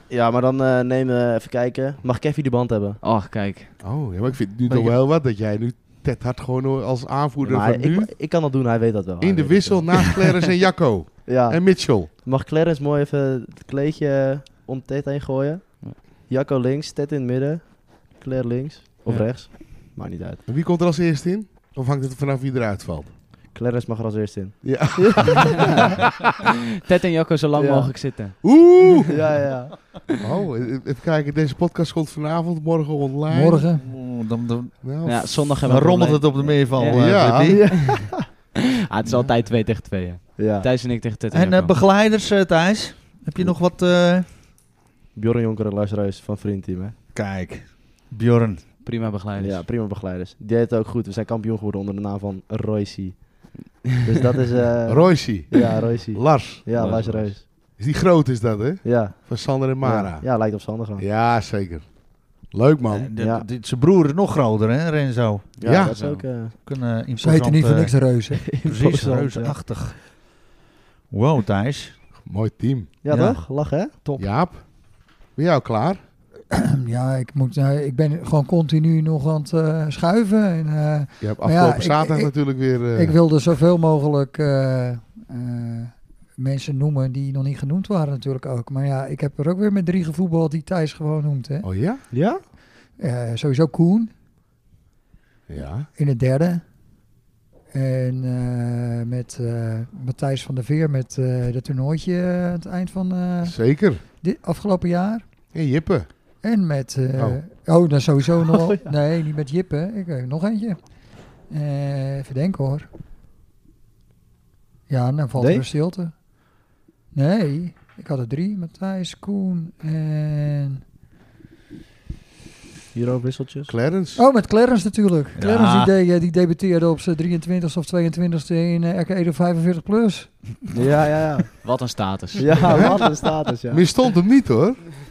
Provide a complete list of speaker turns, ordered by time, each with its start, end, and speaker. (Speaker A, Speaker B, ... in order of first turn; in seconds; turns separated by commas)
Speaker A: 0.1-3.0, Speaker B: 3.0-3.7, Speaker C: 3.8-8.1, Speaker D: 4.7-5.0, Speaker A: 7.4-9.9, Speaker C: 9.2-12.1, Speaker A: 11.2-20.4, Speaker C: 20.5-23.1, Speaker A: 23.5-25.9, Speaker C: 24.6-26.0, Speaker B: 26.8-28.5, Speaker A: 27.5-27.9, Speaker C: 28.4-29.1, Speaker A: 29.1-30.0, Speaker C: 30.2-33.7, Speaker E: 33.3-33.8, Speaker D: 33.8-37.6, Speaker C: 34.8-35.5, Speaker B: 35.0-38.1, Speaker C: 36.9-37.6, Speaker A: 37.5-38.2, Speaker B: 38.6-41.8, Speaker A: 40.4-40.7, Speaker D: 41.3-44.3, Speaker A: 45.1-47.0, Speaker D: 47.1-48.8, Speaker B: 48.8-49.7, Speaker A: 49.4-53.5, Speaker B: 53.6-54.2, Speaker A: 54.0-57.4, Speaker C: 54.9-60.4, Speaker B: 56.8-57.2, Speaker A: 58.8-61.0, Speaker C: 61.0-63.1, Speaker D: 62.9-65.5, Speaker A: 63.2-63.5, Speaker A: 65.6-66.5, Speaker C: 65.6-66.0, Speaker B: 65.7-66.3, Speaker D: 66.5-70.2, Speaker E: 67.2-68.4, Speaker A: 68.3-69.6, Speaker D: 71.1-72.0, Speaker C: 72.2-72.9, Speaker A: 73.0-73.9, Speaker D: 73.1-74.2, Speaker C: 74.2-76.0, Speaker E: 76.5-91.7, Speaker C: 81.2-83.3, Speaker C: 91.6-92.0, Speaker A: 92.1-92.4, Speaker E: 93.0-94.1, Speaker C: 95.5-95.9, Speaker E: 95.9-96.6, Speaker E: 97.7-105.2, Speaker C: 103.4-104.0, Speaker C: 105.5-106.1, Speaker E: 106.4-112.9, Speaker A: 108.4-108.9, Speaker E: 114.9-116.1, Speaker A: 115.4-115.7, Speaker E: 117.1-120.8, Speaker A: 122.9-123.7, Speaker C: 123.7-124.2, Speaker E: 124.2-130.7, Speaker D: 125.4-125.9, Speaker A: 130.7-131.6, Speaker B: 131.6-133.1, Speaker A: 132.4-133.9, Speaker C: 132.7-133.0, Speaker C: 133.7-134.9